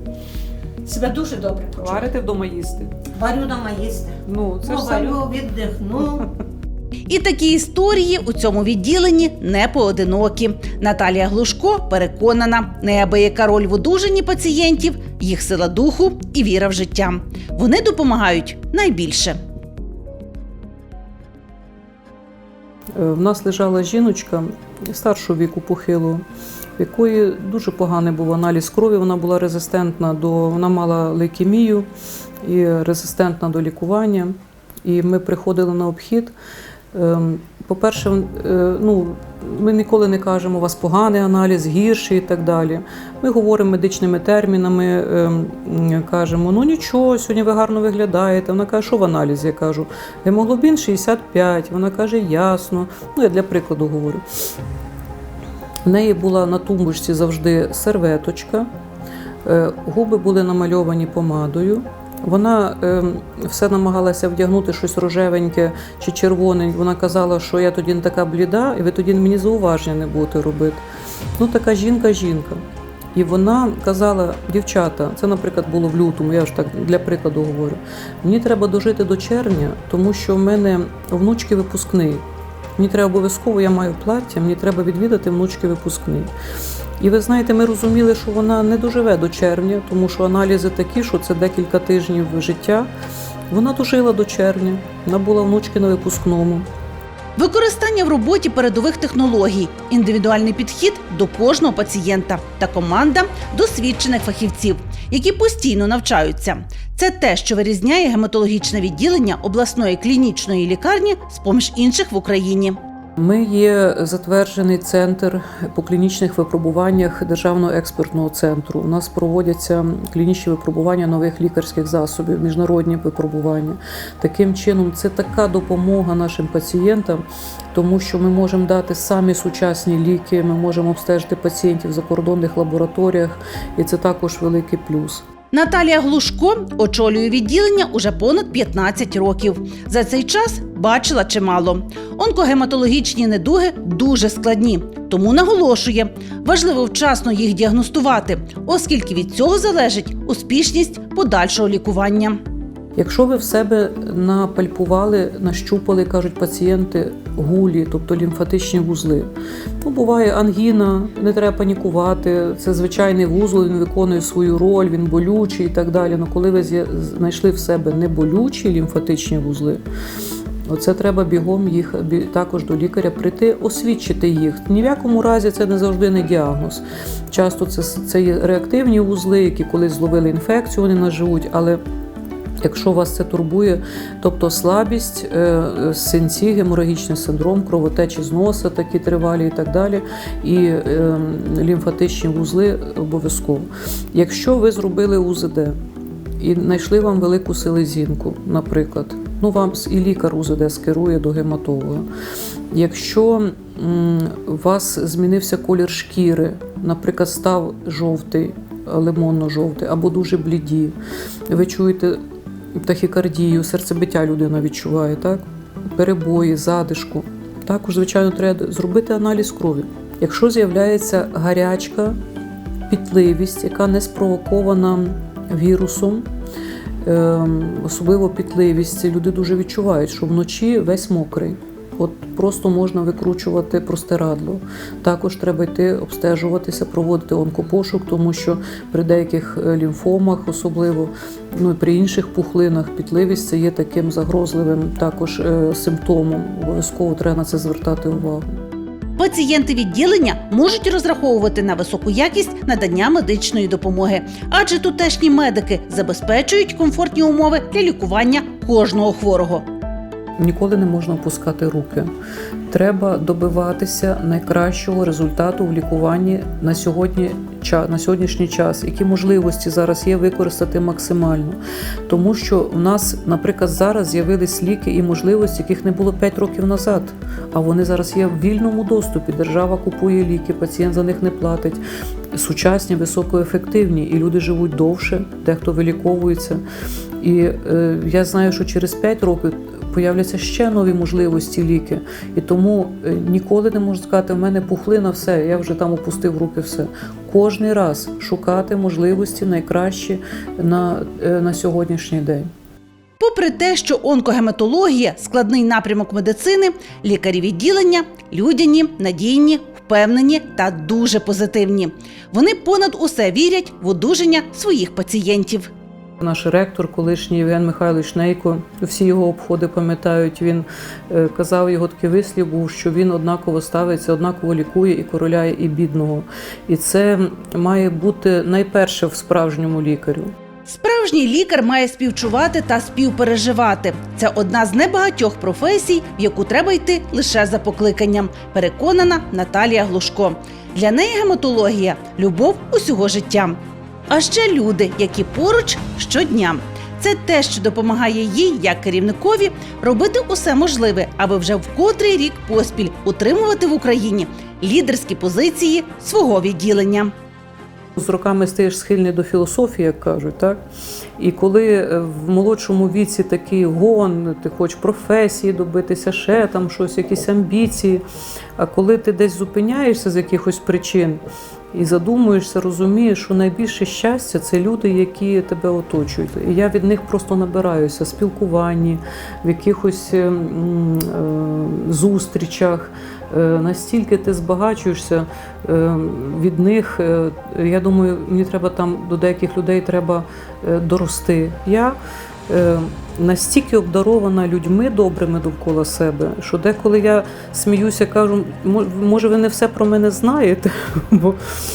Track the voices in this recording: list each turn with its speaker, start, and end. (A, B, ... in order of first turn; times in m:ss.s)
0:00.8-0:02.1 A
0:01.8-0:02.9 B
0:03.1-0:06.2 A
0:04.3-0:05.2 B
0:07.1-0:19.4 C
0:23.0-0:26.2 B
0:26.8-0:31.9 B
0:32.4-0:36.3 B
0:36.9-0:54.2 B
0:55.8-0:58.7 B
0:59.4-1:10.8 B
1:11.4-1:12.6 B
1:13.1-1:22.2 B
1:22.8-1:26.3 B
1:27.0-1:32.9 B
1:33.5-1:36.7 B
1:37.4-1:52.8 C
1:53.2-2:15.2 B
2:15.5-2:32.4 C
2:33.0-2:39.3 B
2:39.8-2:49.8 B
2:50.6-3:01.8 B
3:02.6-3:15.8 B
3:16.4-3:22.1 B
3:22.7-3:31.0 B
3:31.5-3:32.2 B
3:32.8-3:42.2 B
3:42.9-3:46.3 B
3:47.0-4:08.5 B
4:09.2-4:19.6 C
4:20.4-4:22.1 B
4:22.7-4:41.8 B
4:42.3-4:46.6 B
4:47.2-5:02.5 B
5:03.2-5:15.7 C
5:16.2-5:30.3 B
5:30.7-5:43.6 C
5:44.1-5:57.1 C
5:58.0-6:00.6 B
6:01.2-6:08.0 B
6:08.6-6:11.2 B
6:11.7-6:32.0 B
6:32.5-6:41.4 B